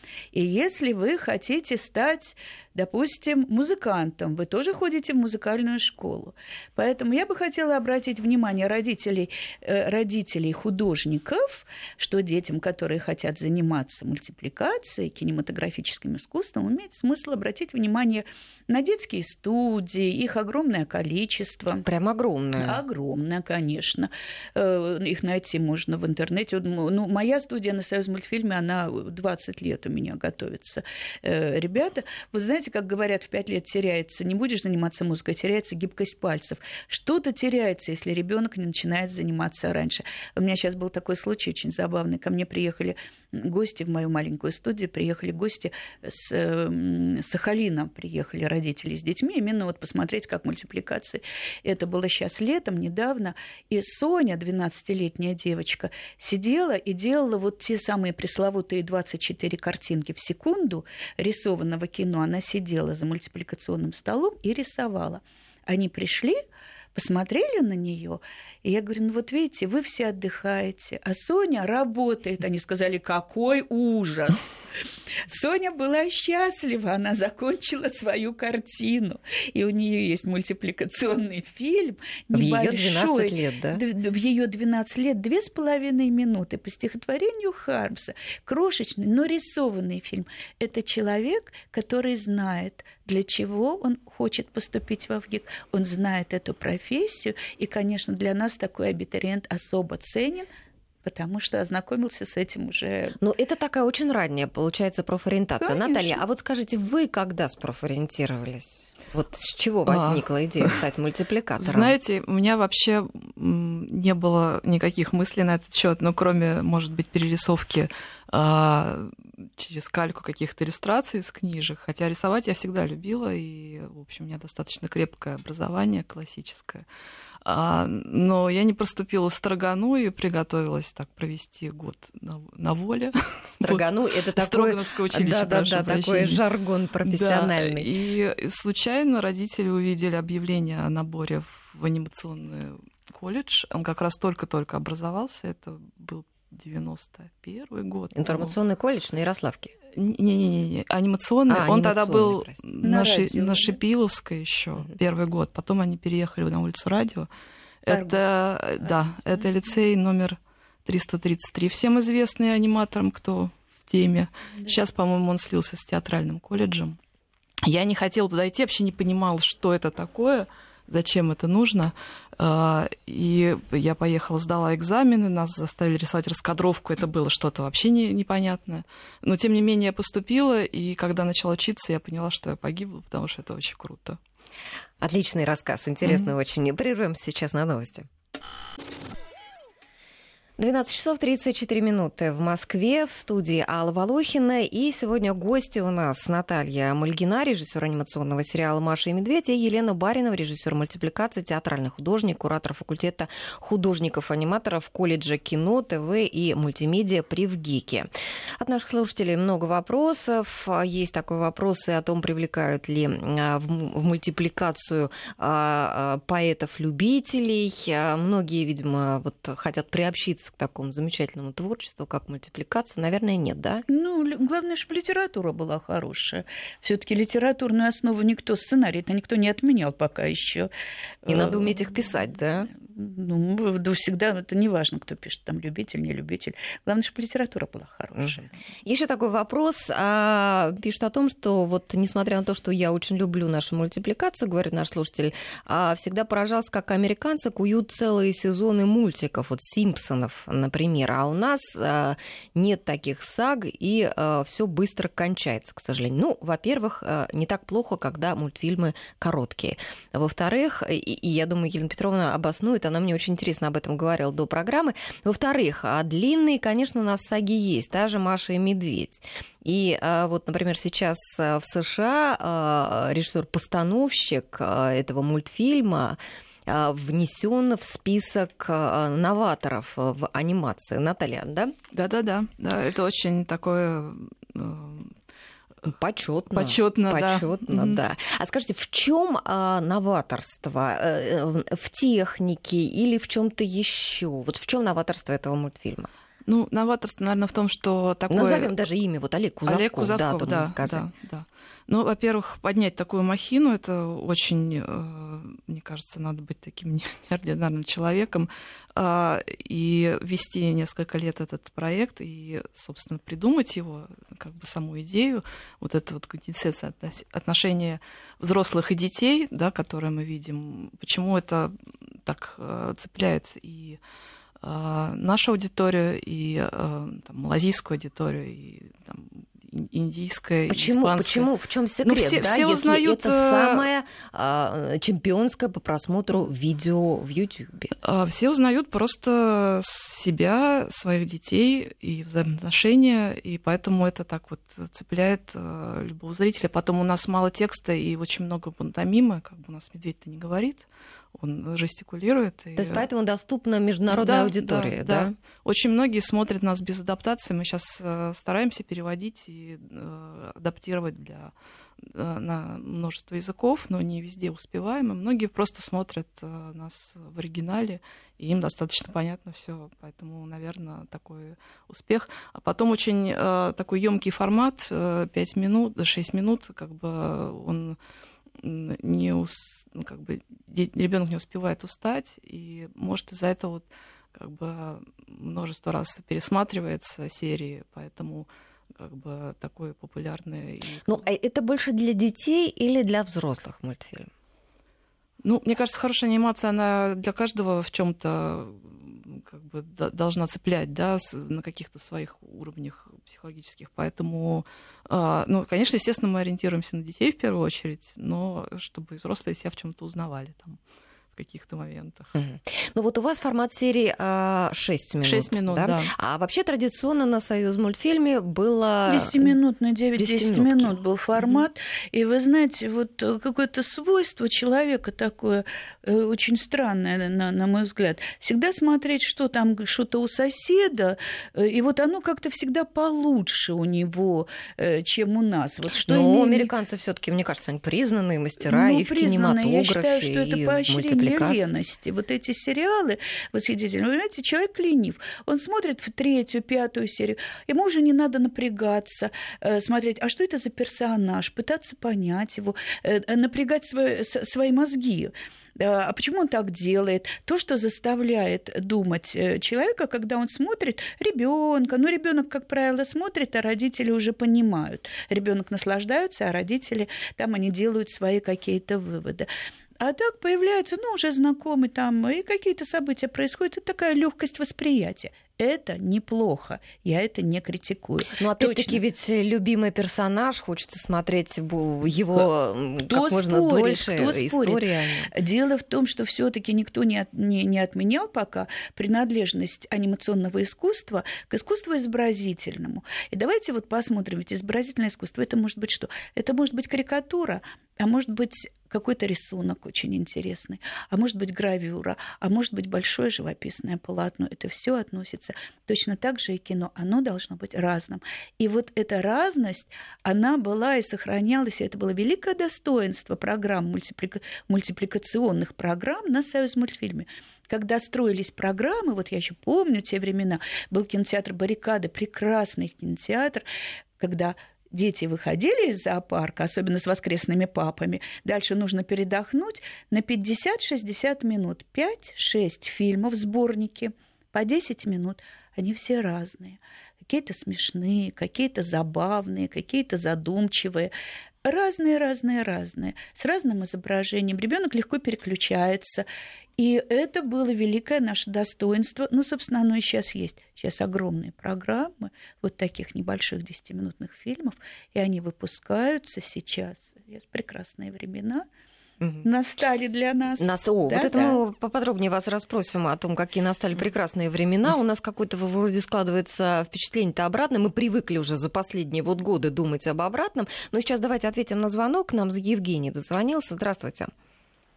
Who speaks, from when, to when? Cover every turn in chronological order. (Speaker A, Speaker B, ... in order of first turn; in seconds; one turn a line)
Speaker A: 0.3-21.9
Speaker B: 21.8-22.8
Speaker A: 22.6-66.4
Speaker A: 66.9-74.6
Speaker A: 75.3-100.5
Speaker B: 82.3-83.8
Speaker A: 101.0-103.2
Speaker B: 103.2-111.9
Speaker A: 105.6-106.2
Speaker C: 109.9-110.7
Speaker C: 111.6-126.8
Speaker C: 127.4-136.4
Speaker B: 133.5-137.9
Speaker C: 137.0-148.5
Speaker B: 148.2-149.7
Speaker C: 149.9-157.3
Speaker B: 151.5-152.6
Speaker A: 152.8-153.8
Speaker C: 157.8-167.0
Speaker A: 157.9-159.5
Speaker C: 167.6-184.2
Speaker B: 185.0-188.1
Speaker C: 186.0-186.3
Speaker B: 190.6-223.8
Speaker A: 223.9-230.7
Speaker A: 231.2-232.2
Speaker B: 231.3-232.7
Speaker A: 232.7-238.5
Speaker B: 238.8-281.7
Speaker C: 281.9-285.1
Speaker B: 285.9-296.1
Speaker C: 286.5-288.0
Speaker C: 296.4-298.7
Speaker B: 298.3-301.1
Speaker C: 299.6-324.0
Speaker C: 324.6-331.5
Speaker B: 330.7-337.9
Speaker C: 332.0-333.9
Speaker C: 338.0-353.0
Speaker B: 352.8-355.3
Speaker C: 354.1-378.0
Speaker C: 378.6-391.2
Speaker B: 391.1-394.3
Speaker C: 395.4-410.8
Speaker C: 411.3-412.3
Speaker B: 412.3-419.5
Speaker C: 415.2-416.1
Speaker A: 419.1-436.7
Speaker B: 420.2-421.0
Speaker B: 435.9-441.6
Speaker A: 438.6-479.0
Speaker B: 478.4-485.3
Speaker A: 483.1-523.6
Speaker A: 524.2-541.1
Speaker A: 541.6-558.7
Speaker B: 559.2-559.5
Speaker A: 559.4-561.6
Speaker B: 560.6-574.3